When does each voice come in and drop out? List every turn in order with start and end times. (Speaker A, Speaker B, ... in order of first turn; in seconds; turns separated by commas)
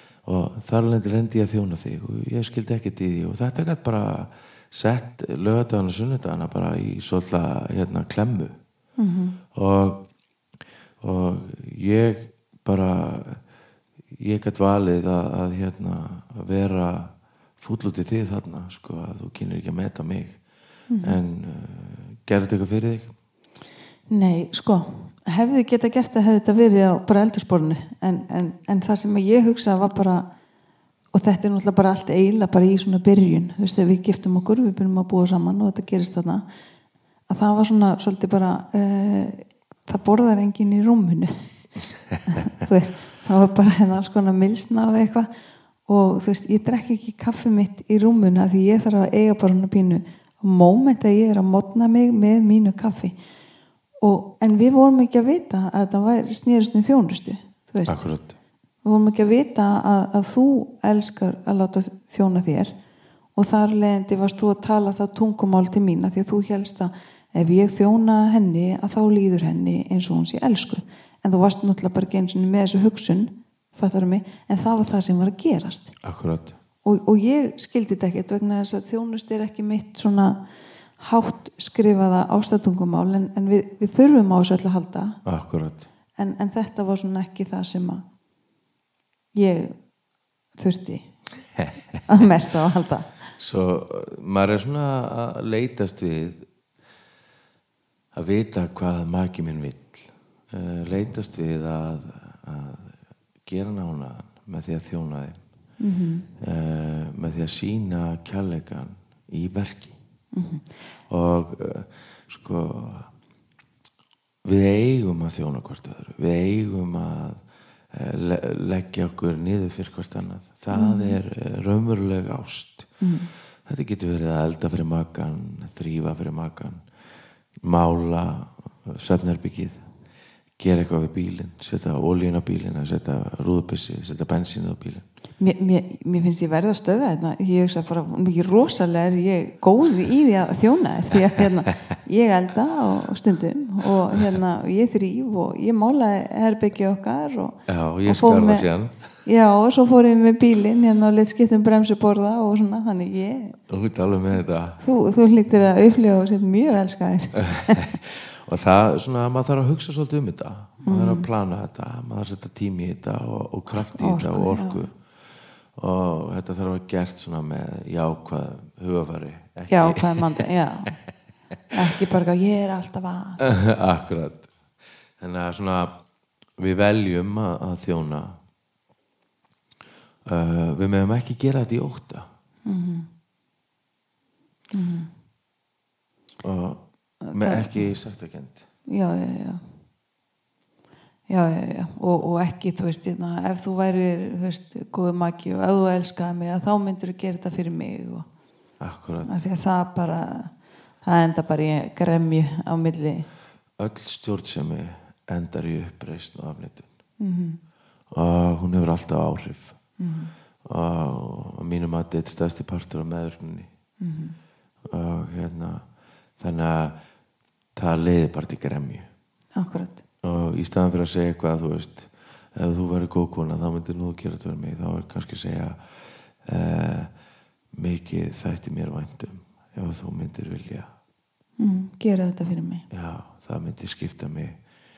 Speaker A: 0.2-8.6, Speaker B: 9.0-9.4, Speaker A: 9.6-10.0, Speaker A: 11.0-13.4, Speaker A: 14.1-20.4, Speaker B: 20.9-21.2, Speaker A: 21.0-23.1, Speaker B: 24.1-30.2, Speaker B: 31.1-36.4, Speaker B: 37.3-41.4, Speaker B: 42.3-45.3, Speaker B: 45.9-53.2, Speaker B: 54.0-58.0, Speaker A: 57.9-58.3, Speaker B: 58.8-62.7, Speaker B: 63.4-75.9, Speaker A: 76.0-76.6, Speaker B: 76.8-80.4, Speaker B: 81.0-85.2, Speaker A: 85.2-85.9, Speaker B: 86.2-88.0, Speaker B: 89.4-89.8, Speaker B: 90.6-91.1, Speaker A: 91.6-92.0, Speaker B: 92.1-93.2, Speaker A: 93.4-96.5, Speaker A: 98.1-105.4, Speaker B: 105.8-106.3, Speaker A: 106.4-109.9, Speaker B: 110.3-110.7, Speaker A: 111.1-113.1, Speaker A: 114.5-123.0, Speaker B: 120.7-121.2, Speaker B: 123.0-123.3, Speaker A: 123.7-126.9, Speaker A: 127.6-129.8, Speaker A: 130.6-135.1, Speaker B: 135.4-148.7, Speaker A: 147.7-148.9, Speaker B: 149.2-153.6, Speaker A: 153.7-154.8, Speaker B: 154.8-157.9, Speaker A: 157.6-165.0, Speaker B: 160.8-161.3, Speaker B: 163.9-164.8, Speaker A: 165.7-170.5, Speaker B: 169.7-171.0, Speaker B: 171.7-173.4, Speaker A: 173.4-174.5, Speaker A: 175.2-175.9, Speaker A: 176.6-178.4, Speaker A: 180.2-182.3, Speaker B: 182.7-183.1, Speaker B: 184.7-185.1, Speaker A: 186.4-188.6, Speaker B: 187.2-187.9, Speaker B: 188.9-189.7, Speaker B: 191.3-198.3, Speaker A: 198.8-199.4, Speaker B: 199.2-203.3, Speaker A: 203.8-206.9, Speaker B: 207.2-207.6, Speaker A: 208.1-209.8, Speaker B: 210.0-210.3, Speaker A: 210.6-213.7, Speaker B: 214.0-214.4, Speaker A: 214.9-216.9, Speaker A: 217.8-219.1, Speaker B: 219.6-220.0, Speaker A: 220.2-227.1, Speaker A: 227.7-230.9, Speaker B: 231.6-232.9, Speaker A: 232.9-234.6